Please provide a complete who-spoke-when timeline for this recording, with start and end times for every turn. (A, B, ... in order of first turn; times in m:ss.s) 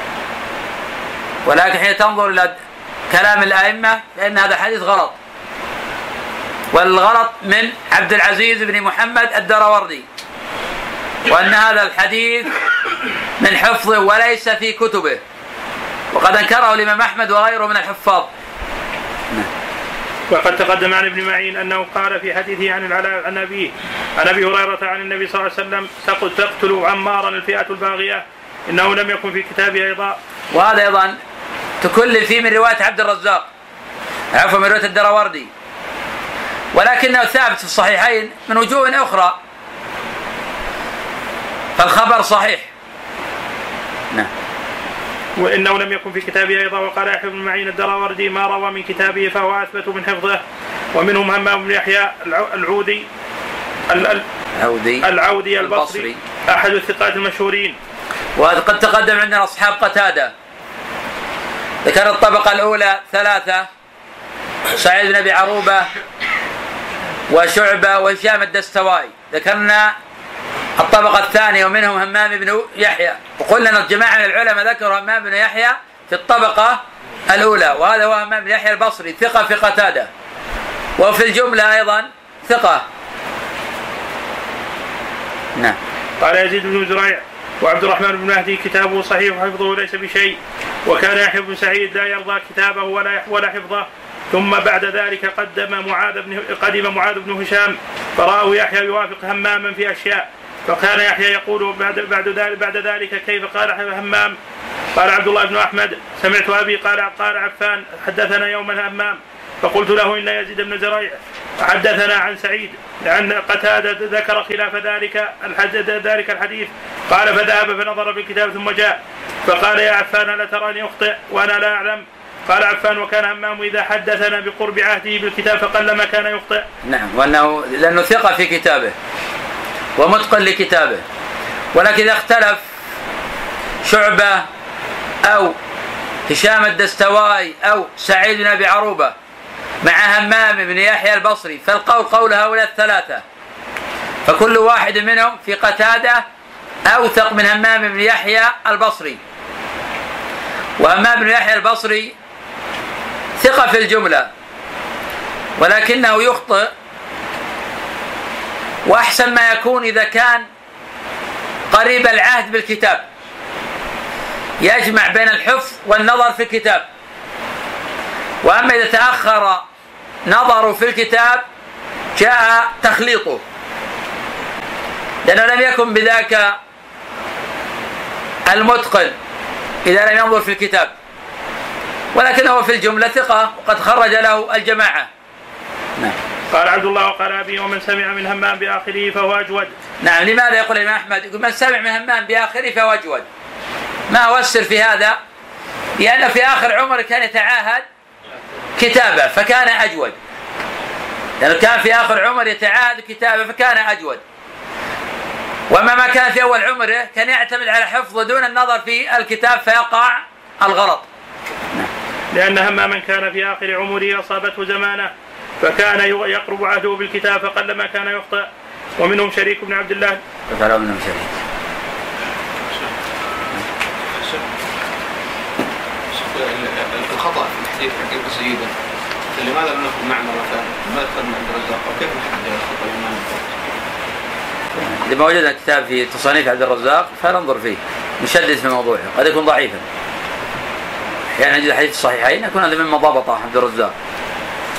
0:01.4-0:02.6 A
0:03.1-0:05.2 A
0:06.7-0:10.0 A
0:11.3-0:12.5 A
0:13.4-0:15.2 A
0:16.1-0:18.3 A
0:20.3-0:30.2 B
0:30.5-0:31.2 A
0:31.8-0:33.5 A
0:34.3-0:35.5 A
0:36.7-0:39.4 A
0:41.8-0:42.7 A
0:45.4-0:50.4 B
0:50.9-0:53.0 B
0:53.9-0:54.2 B
0:54.5-0:55.1 A
0:55.0-0:57.8 B
0:55.6-0:56.2 A
0:58.4-1:00.3 A
1:01.8-1:03.7 A
1:04.8-1:05.9 A
1:07.3-1:09.9 A
1:10.8-1:20.1 A
1:21.0-1:22.8 A
1:26.2-1:44.4 B
1:44.9-2:06.6 B
2:06.8-2:08.9 A
2:10.0-2:11.0 A
2:11.7-2:12.6 A
2:13.8-2:14.4 A
2:15.2-2:15.6 A
2:16.3-2:19.1 A
2:19.8-2:23.2 A
2:24.2-2:26.2 A
2:26.8-2:29.2 A
2:30.8-2:32.1 A
2:33.4-2:34.3 A
2:35.6-2:36.7 A
2:38.8-2:40.4 A
2:41.7-2:43.0 A
2:44.6-2:46.8 A
2:48.4-2:49.6 A
2:50.2-2:51.4 A
2:52.1-2:53.4 A
2:55.2-2:56.6 A
2:58.5-2:59.1 A
2:59.8-3:00.9 A
3:02.1-3:05.1 A
3:06.5-3:09.7 B
3:10.0-3:13.3 A
3:14.1-3:15.2 A
3:16.0-3:17.8 A
3:18.8-3:20.2 A
3:21.4-3:24.2 A
3:25.7-3:31.1 A
3:32.3-3:38.5 B
3:39.0-3:40.2 B
3:40.5-3:41.4 A
3:42.7-3:43.0 C
3:44.1-3:44.5 C
3:46.1-3:48.7 C
3:49.3-3:53.6 C
3:54.8-3:59.8 A
4:01.4-4:03.9 A